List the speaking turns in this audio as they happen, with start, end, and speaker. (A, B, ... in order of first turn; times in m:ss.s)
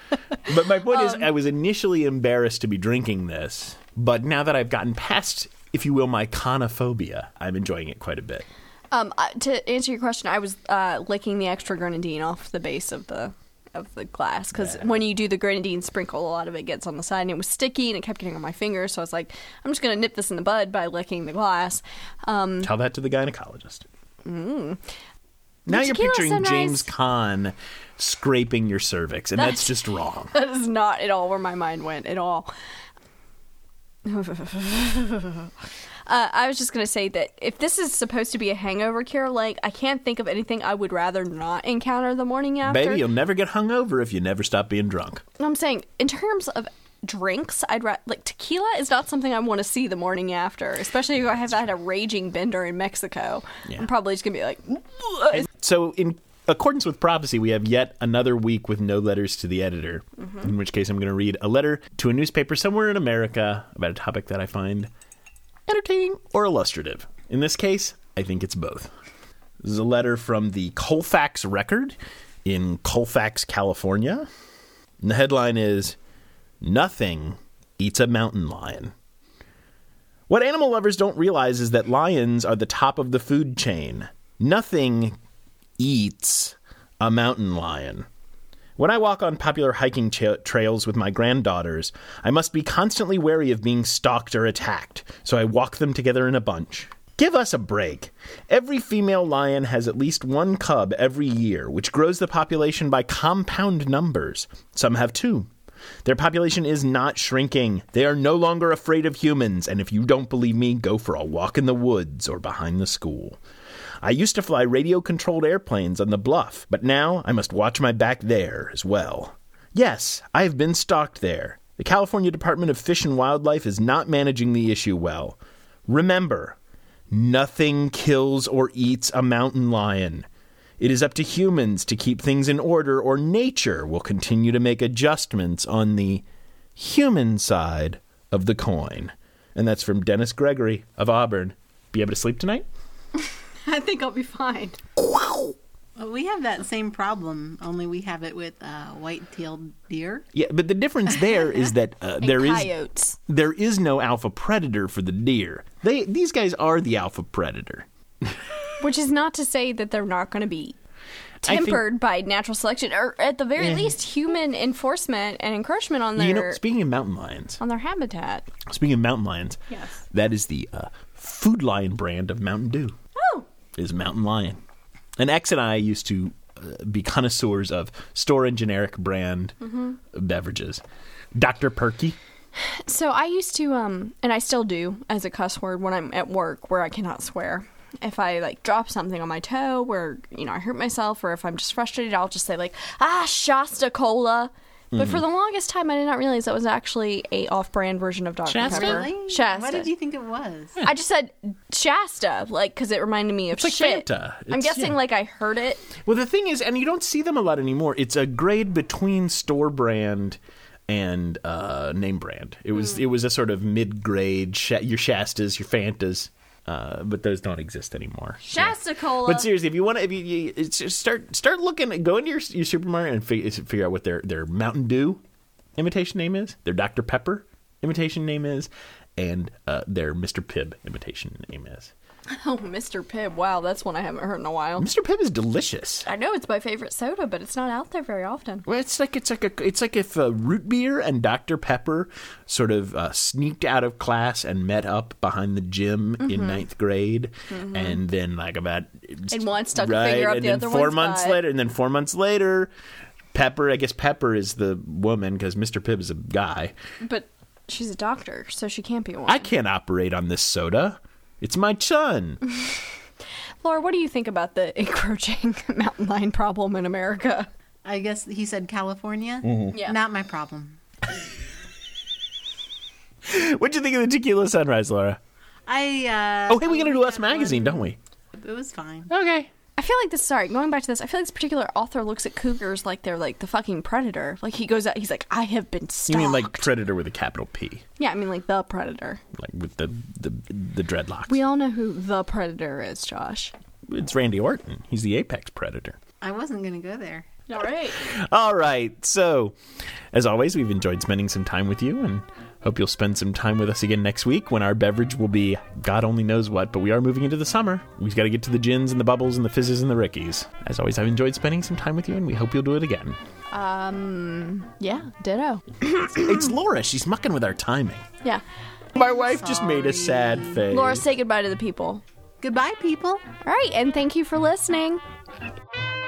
0:00.4-0:08.4 A
0:08.9-0:22.7 B
0:22.6-0:23.8 A
0:24.2-0:24.8 B
0:25.6-0:26.9 B
0:25.7-0:30.3 A
0:29.4-0:29.8 B
0:30.3-0:32.5 B
0:34.0-0:35.5 B
0:36.1-0:43.0 B
0:42.6-0:45.2 A
0:45.4-0:55.4 B
0:55.3-1:04.9 A
1:00.2-1:00.5 B
1:05.7-1:08.9 A
1:09.6-1:14.3 A
1:15.0-1:16.0 A
1:16.6-1:18.9 A
1:20.3-1:25.2 A
1:25.8-1:28.0 A
1:28.8-1:45.5 A
1:46.0-1:53.4 A
1:54.0-2:06.6 A
2:07.1-2:10.2 A
2:10.8-2:16.2 A
2:16.8-2:22.6 A
2:23.6-2:24.8 B
2:25.0-2:25.5 A
2:26.0-2:30.2 C
2:30.3-2:32.7 A
2:32.2-2:33.2 B
2:33.3-2:38.5 A
2:38.8-2:40.8 B
2:41.4-2:41.8 A
2:41.4-2:46.6 B
2:43.6-2:44.0 A
2:46.2-2:47.6 A
2:47.6-2:48.5 B
2:48.6-2:52.9 A
2:49.7-2:50.0 B
2:53.2-2:53.4 B
2:53.8-2:54.6 A
2:55.2-3:00.8 A
2:59.6-3:00.0 B
3:01.3-3:02.2 A
3:02.6-3:19.9 B
3:14.9-3:15.2 A
3:18.4-3:19.1 A
3:18.6-3:20.8 C
3:20.8-3:25.9 B
3:23.5-3:25.0 A
3:26.0-3:45.2 A
3:38.4-3:39.5 B
3:45.8-3:51.9 A
3:52.3-3:54.9 B
3:54.8-3:56.1 A
3:56.0-3:58.6 B
3:58.6-4:12.7 A
4:06.2-4:06.6 B
4:07.5-4:08.0 B
4:09.3-4:11.4 B
4:13.3-4:16.7 A
4:17.0-4:19.5 B
4:19.3-4:22.4 A
4:23.6-4:27.5 B
4:27.8-4:30.8 C
4:29.4-4:29.7 A
4:29.7-4:30.0 B
4:33.2-4:35.2 A
4:35.7-4:37.8 C
4:36.5-4:38.0 A
4:38.4-4:39.1 C
4:39.1-4:39.5 A
4:39.8-4:46.7 B
4:46.1-4:47.8 A
4:48.0-4:49.2 B
4:49.3-4:51.4 A
4:51.3-4:53.5 B
4:53.8-4:56.0 A
4:56.2-4:57.3 C
4:57.5-4:58.0 B
4:58.0-4:59.6 A
5:00.1-5:13.2 A
5:13.5-5:16.3 B
5:16.0-5:18.0 A
5:18.9-5:21.0 A
5:19.0-5:20.6 C
5:20.7-5:22.0 B
5:22.4-5:23.3 C
5:23.4-5:25.0 B